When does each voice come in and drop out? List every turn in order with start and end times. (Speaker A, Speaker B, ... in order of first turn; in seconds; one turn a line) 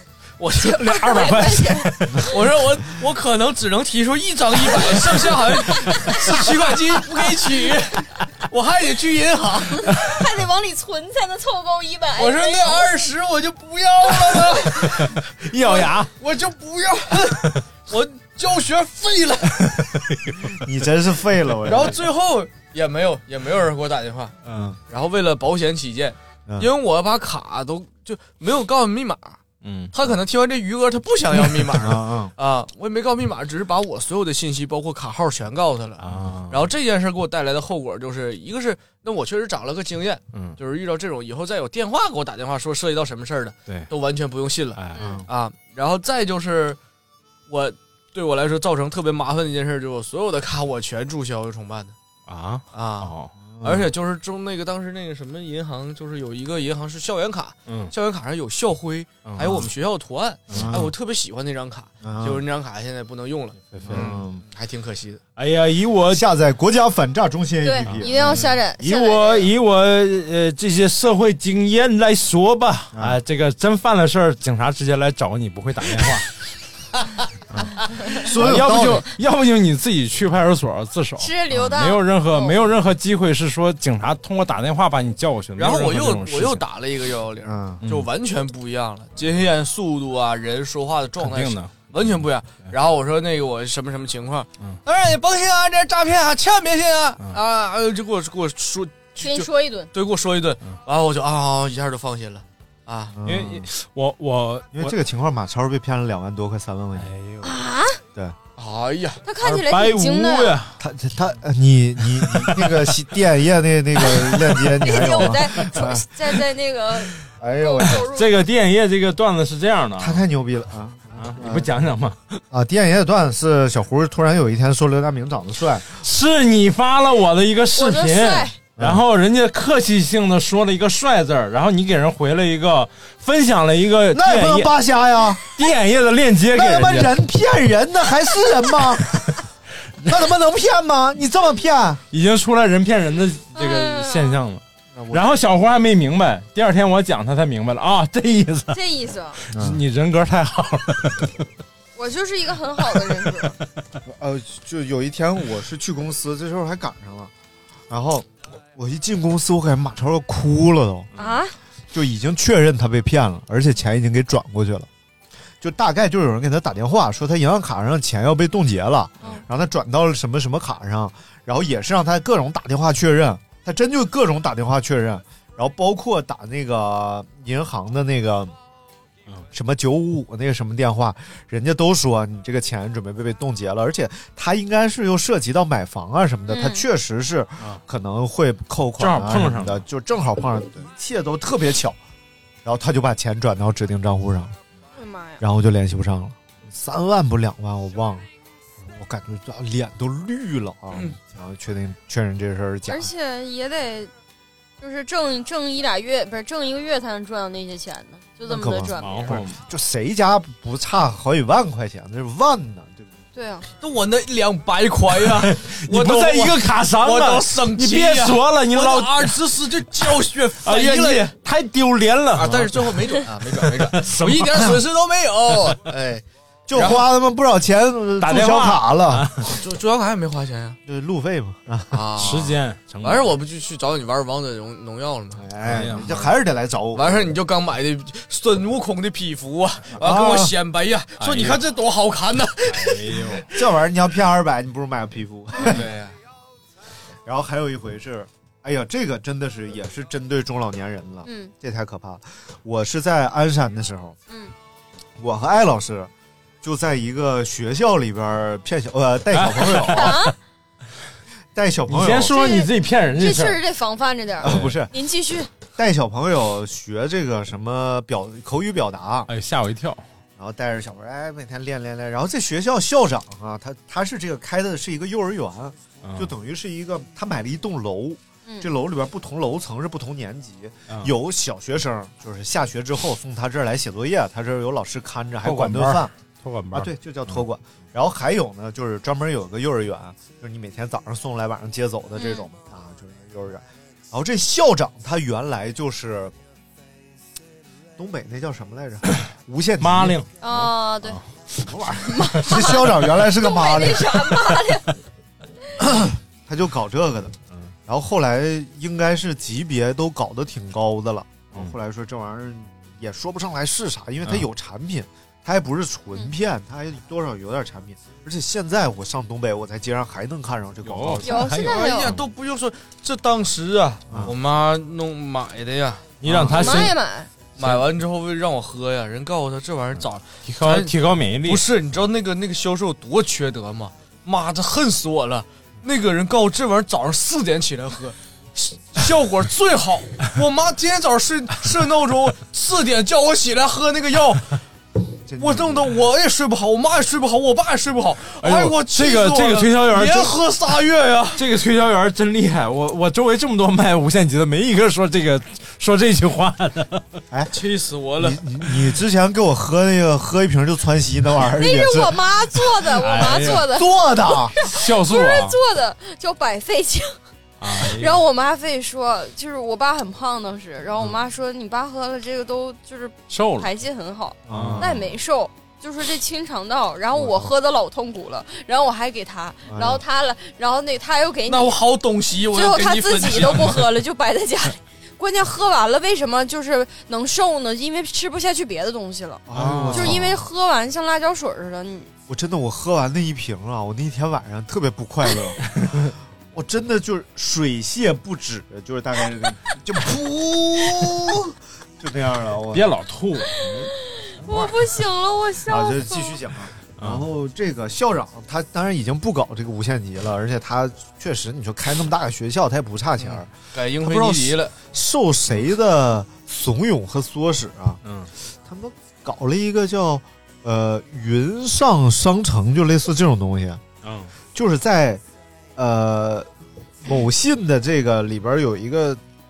Speaker A: 0.4-0.7
Speaker B: 0.6-2.3
Speaker C: 0.6-2.2
Speaker A: 2.2-10.2
Speaker B: 5.5-6.2
Speaker B: 9.9-13.0
Speaker A: 12.2-19.8
Speaker C: 14.8-16.1
Speaker C: 17.3-17.6
Speaker C: 19.6-20.6
Speaker D: 20.5-22.1
Speaker A: 21.6-24.4
Speaker C: 24.5-24.7
Speaker D: 24.5-24.8
Speaker A: 24.9-29.4
Speaker C: 29.6-29.9
Speaker A: 29.9-46.8
Speaker D: 31.8-32.3
Speaker C: 36.0-36.7
Speaker C: 40.3-40.6
Speaker C: 44.8-45.1
Speaker B: 45.0-45.2
Speaker D: 45.0-45.3
Speaker A: 47.5-52.0
Speaker C: 52.3-53.3
Speaker A: 52.7-65.2
Speaker D: 53.5-53.9
Speaker C: 57.7-57.9
Speaker C: 59.2-59.7
Speaker C: 60.5-60.9
Speaker D: 60.5-60.9
Speaker D: 62.0-62.4
Speaker C: 63.7-64.3
Speaker D: 63.8-64.4
Speaker C: 65.4-66.2
Speaker D: 66.1-68.5
Speaker B: 67.6-69.5
Speaker C: 67.8-76.3
Speaker D: 72.9-73.2
Speaker C: 77.5-86.6
Speaker D: 78.2-79.1
Speaker B: 81.2-82.6
Speaker A: 85.6-103.2
Speaker D: 87.5-87.8
Speaker C: 87.8-88.1
Speaker C: 91.2-92.1
Speaker B: 99.2-99.9
Speaker D: 103.2-103.7
Speaker C: 103.2-105.0
Speaker D: 104.7-107.1
Speaker C: 107.0-107.6
Speaker B: 107.4-108.0
Speaker A: 108.6-109.2
Speaker B: 109.2-110.6
Speaker C: 109.4-110.8
Speaker D: 110.8-116.1
Speaker C: 112.1-113.0
Speaker C: 114.2-115.3
Speaker B: 114.8-118.4
Speaker D: 117.4-118.0
Speaker C: 118.0-120.2
Speaker D: 120.0-121.7
Speaker C: 121.2-122.4
Speaker D: 122.5-125.8
Speaker C: 126.0-134.7
Speaker B: 127.8-128.6
Speaker D: 134.1-135.4
Speaker C: 135.5-137.2
Speaker D: 136.5-139.4
Speaker D: 140.0-142.0
Speaker C: 142.1-148.8
Speaker B: 143.6-144.4
Speaker D: 144.9-145.4
Speaker B: 148.7-149.4
Speaker C: 149.4-151.4
Speaker D: 149.5-149.8
Speaker B: 152.0-153.6
Speaker D: 154.1-157.3
Speaker D: 157.9-161.1
Speaker C: 161.2-161.4
Speaker B: 161.2-161.5
Speaker D: 161.9-164.9
Speaker D: 165.6-178.5
Speaker D: 179.5-192.0
Speaker B: 186.5-186.8
Speaker C: 189.0-189.8
Speaker D: 192.7-194.6
Speaker B: 195.0-195.4
Speaker D: 195.4-198.3
Speaker D: 198.9-203.1
Speaker B: 202.9-204.1
Speaker B: 204.8-209.4
Speaker D: 208.4-213.1
Speaker C: 209.0-209.6
Speaker B: 213.3-213.7
Speaker A: 213.8-221.3
Speaker C: 215.4-219.4
Speaker C: 220.6-223.1
Speaker A: 222.3-227.1
Speaker C: 223.6-224.7
Speaker D: 226.7-229.3
Speaker C: 228.2-229.5
Speaker A: 229.4-230.8
Speaker D: 230.9-232.1
Speaker A: 231.9-236.2
Speaker C: 232.2-233.3
Speaker D: 235.3-237.4
Speaker C: 235.7-236.3
Speaker A: 236.9-243.5
Speaker D: 239.9-240.6
Speaker C: 241.2-241.6
Speaker C: 242.7-243.5
Speaker D: 243.5-245.9
Speaker A: 245.6-246.2
Speaker D: 247.2-254.2
Speaker B: 251.2-251.5
Speaker B: 254.3-254.5
Speaker D: 255.2-256.1
Speaker D: 256.6-260.2
Speaker C: 259.3-260.3
Speaker B: 259.9-260.4
Speaker D: 261.6-262.4
Speaker C: 261.9-263.6
Speaker B: 262.3-265.5
Speaker D: 264.4-264.9
Speaker C: 264.4-264.8
Speaker D: 265.8-269.3
Speaker C: 269.3-270.0
Speaker D: 270.4-286.1
Speaker C: 276.0-276.3
Speaker C: 285.4-287.4
Speaker D: 286.7-296.3
Speaker B: 292.2-292.5
Speaker D: 298.0-300.2
Speaker C: 299.8-301.7
Speaker B: 300.4-301.2
Speaker D: 301.6-304.5
Speaker B: 302.0-304.9
Speaker D: 305.8-307.4
Speaker D: 307.9-321.6
Speaker C: 320.8-322.3
Speaker B: 321.2-322.1
Speaker A: 321.6-326.2
Speaker C: 326.2-327.0
Speaker D: 326.2-326.8
Speaker B: 326.5-327.3
Speaker A: 327.6-344.6
Speaker C: 327.6-327.9
Speaker C: 330.5-331.6
Speaker D: 345.3-346.0
Speaker A: 345.4-351.4
Speaker C: 348.4-350.4
Speaker C: 351.4-357.1
Speaker A: 357.5-358.4
Speaker D: 358.2-362.4
Speaker B: 361.6-367.2
Speaker C: 363.0-363.7
Speaker D: 363.4-364.5
Speaker C: 364.7-365.6
Speaker C: 367.6-368.2
Speaker B: 367.8-381.8
Speaker C: 373.3-373.7
Speaker D: 374.5-375.1
Speaker C: 374.5-374.9
Speaker D: 377.2-377.5
Speaker D: 379.7-380.0
Speaker A: 381.5-383.9
Speaker B: 382.5-392.1
Speaker D: 389.5-390.4
Speaker C: 389.5-390.2
Speaker D: 392.3-395.8
Speaker D: 396.5-402.9
Speaker C: 402.7-403.9
Speaker B: 403.5-406.4
Speaker D: 404.5-404.7
Speaker D: 405.7-418.0
Speaker C: 407.0-407.3
Speaker A: 413.2-414.7
Speaker C: 418.1-418.3
Speaker D: 418.6-423.8
Speaker C: 424.0-424.3
Speaker D: 424.6-425.2
Speaker D: 425.8-426.5
Speaker D: 427.0-429.2